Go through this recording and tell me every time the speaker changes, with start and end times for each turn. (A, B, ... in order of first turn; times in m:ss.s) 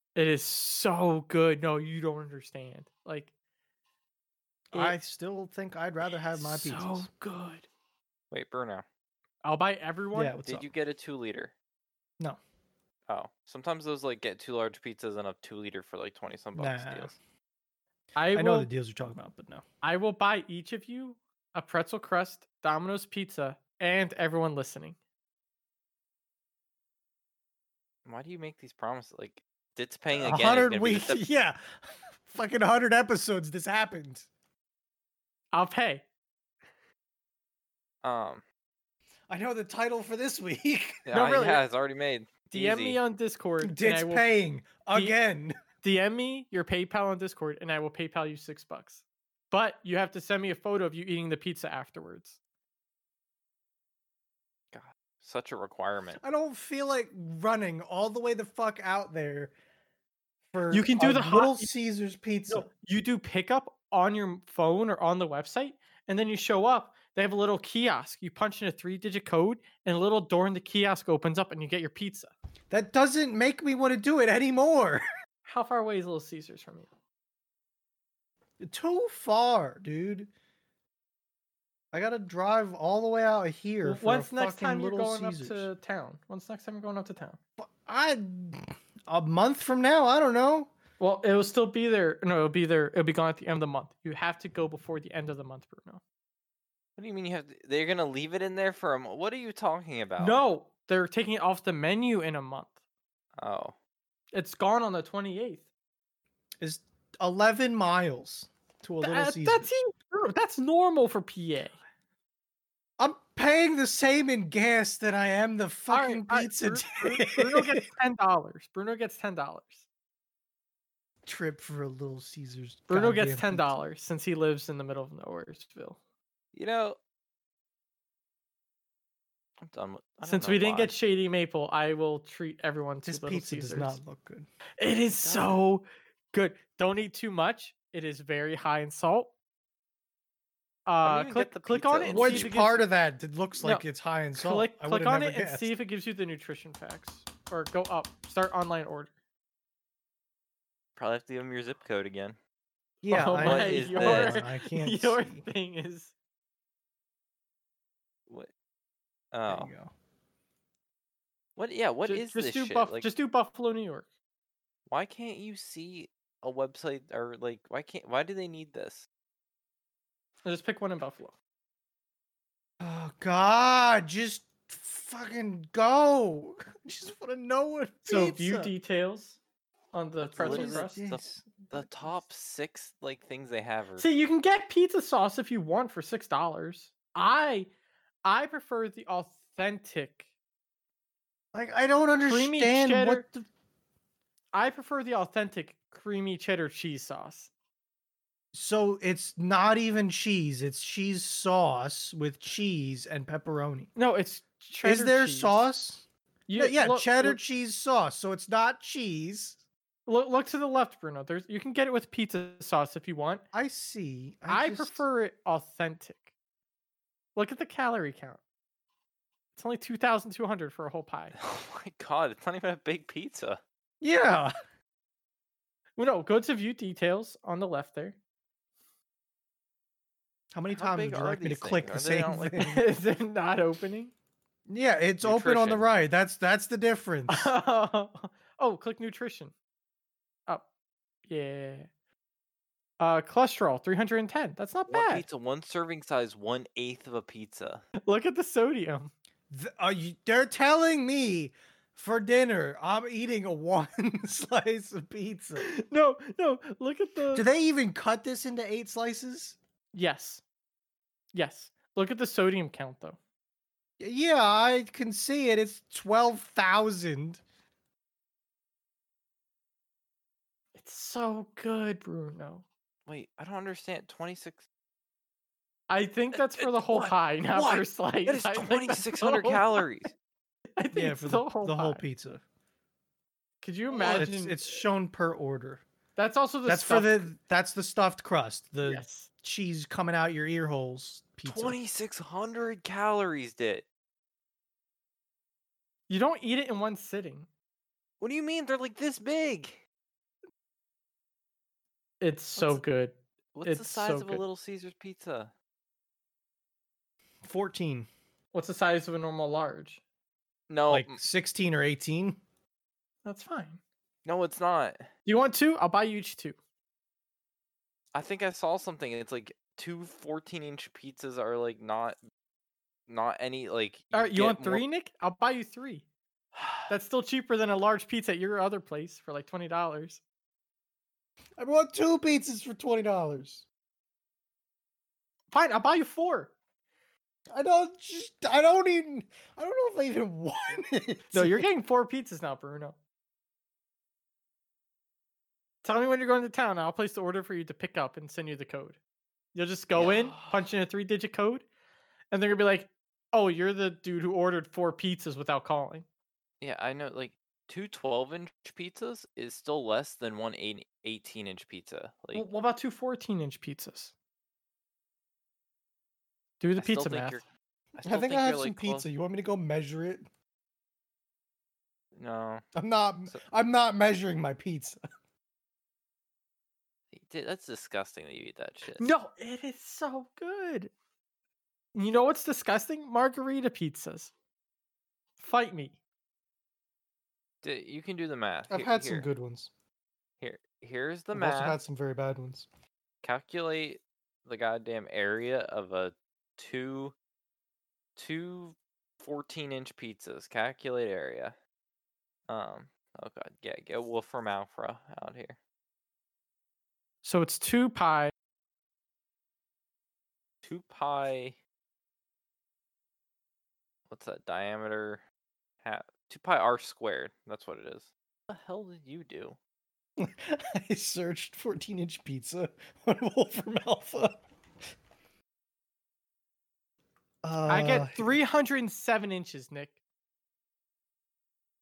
0:00.1-0:03.3 A
0:04.7-0:07.1 B
0:06.3-0:07.7 A
0:08.3-0:08.8 C
0:09.4-0:10.4 A
0:10.1-0:10.7 B
0:10.4-0:11.5 C
0:13.1-0:17.1 C
0:16.5-0:17.2 B
0:18.2-0:18.7 A
0:18.3-0:19.6 B
0:19.8-0:25.0 A
0:28.0-0:31.2 C
0:30.1-0:34.3 B
0:35.5-0:36.0 A
0:38.0-0:38.4 C
0:39.3-0:41.0 B
0:41.0-0:43.0 C
0:41.1-0:41.6 A
0:42.5-0:44.3 A
0:43.6-0:45.6 B
0:45.8-0:52.4 A
0:54.7-0:56.2 C
0:56.2-0:59.5 B
1:00.5-1:02.7 B
1:00.7-1:01.7 A
1:02.5-1:12.3 A
1:12.7-1:15.0 B
1:15.4-1:16.9 A
1:18.6-1:20.3 B
1:21.9-1:25.7 B
1:23.8-1:27.4 A
1:27.6-1:30.7 B
1:31.0-1:36.0 A
1:37.0-1:40.4 C
1:40.2-1:42.8 A
1:43.4-1:43.8 C
1:44.3-1:45.6 A
1:46.6-1:49.7 B
1:49.0-1:51.8 A
1:53.0-1:57.8 B
1:55.9-1:59.8 A
2:01.2-2:03.7 B
2:02.9-2:06.0 A
2:06.5-2:07.0 C
2:09.6-2:10.9 C
2:10.2-2:14.0 A
2:13.0-2:14.5 B
2:14.8-2:19.3 A
2:15.2-2:15.6 C
2:20.9-2:22.8 A
2:21.0-2:22.5 C
2:22.1-2:25.7 B
2:23.6-2:29.1 A
2:31.0-2:32.4 C
2:33.0-2:35.4 B
2:33.0-2:36.1 A
2:33.4-2:34.4 C
2:39.3-2:39.7 C
2:39.5-2:39.9 B
2:41.6-2:43.1 C
2:42.0-2:44.1 A
2:44.9-2:49.1 C
2:50.4-2:51.3 A
2:52.8-2:58.7 B
2:58.1-2:59.4 A
2:59.9-3:01.0 A
3:00.2-3:04.1 C
3:00.4-3:01.8 B
3:04.0-3:07.7 A
3:08.2-3:10.2 A
3:11.5-3:13.4 B
3:12.3-3:13.2 A
3:14.5-3:17.5 A
3:18.5-3:23.9 B
3:24.0-3:25.6 A
3:24.8-3:29.6 B
3:26.5-3:27.4 A
3:30.1-3:33.4 A
3:33.5-3:35.0 B
3:34.5-3:36.3 A
3:37.4-3:38.4 A
3:39.6-3:41.4 A
3:41.4-3:43.6 C
3:44.0-3:44.5 B
3:46.0-3:48.2 A
3:50.5-3:52.8 B
3:50.7-3:52.6 C
3:52.6-3:54.1 A
3:54.7-3:57.5 B
3:55.2-3:55.9 C
3:57.3-3:59.5 A
4:01.3-4:01.9 A
4:03.0-4:05.2 A
4:04.9-4:07.8 C
4:08.0-4:09.1 A
4:09.5-4:15.7 B
4:15.6-4:17.4 A
4:17.3-4:19.6 B
4:19.9-4:20.4 A
4:21.3-4:23.2 A
4:24.0-4:27.4 B
4:30.8-4:32.6 A
4:33.1-4:34.6 C
4:35.9-4:39.8 A
4:36.3-4:40.1 C
4:40.8-4:42.0 A
4:40.9-4:42.4 B
4:43.6-4:44.8 A
4:43.9-4:45.8 B
4:46.2-4:47.2 A
4:46.6-4:51.8 B
4:48.8-4:49.3 A
4:51.4-4:53.9 C
4:56.1-4:57.5 A
4:58.2-4:59.8 C
5:02.2-5:04.4 A
5:02.6-5:02.8 C
5:03.6-5:05.5 C
5:07.4-5:08.1 B
5:08.5-5:10.0 A
5:10.7-5:11.2 C
5:10.9-5:12.4 B
5:13.2-5:13.8 A
5:14.2-5:15.1 C
5:15.2-5:16.6 A
5:18.1-5:22.2 C
5:23.1-5:24.8 C
5:24.1-5:26.0 A
5:26.5-5:26.9 C
5:26.9-5:30.2 A
5:31.6-5:33.6 B
5:35.5-5:36.5 A
5:37.5-5:41.7 B
5:41.3-5:43.0 A
5:45.8-5:49.0 A
5:49.6-5:51.6 A
5:50.0-5:50.6 C
5:52.3-5:56.0 A
5:56.6-6:02.4 C
6:02.4-6:04.1 A
6:06.6-6:07.4 A
6:06.8-6:09.0 C
6:08.0-6:10.2 B
6:12.1-6:12.6 C
6:12.7-6:15.0 B
6:17.1-6:19.1 C
6:18.9-6:20.9 A
6:21.9-6:24.3 A
6:25.4-6:26.0 A
6:27.6-6:29.3 C
6:28.7-6:29.7 B
6:30.4-6:31.8 C
6:31.3-6:32.7 B
6:33.2-6:37.1 C
6:38.2-6:41.6 C
6:42.5-6:45.6 C
6:47.2-6:48.3 A
6:50.6-6:51.6 C
6:54.1-6:55.2 C
6:55.8-6:59.6 C
7:00.2-7:04.4 B
7:07.4-7:08.4 B
7:07.7-7:10.0 A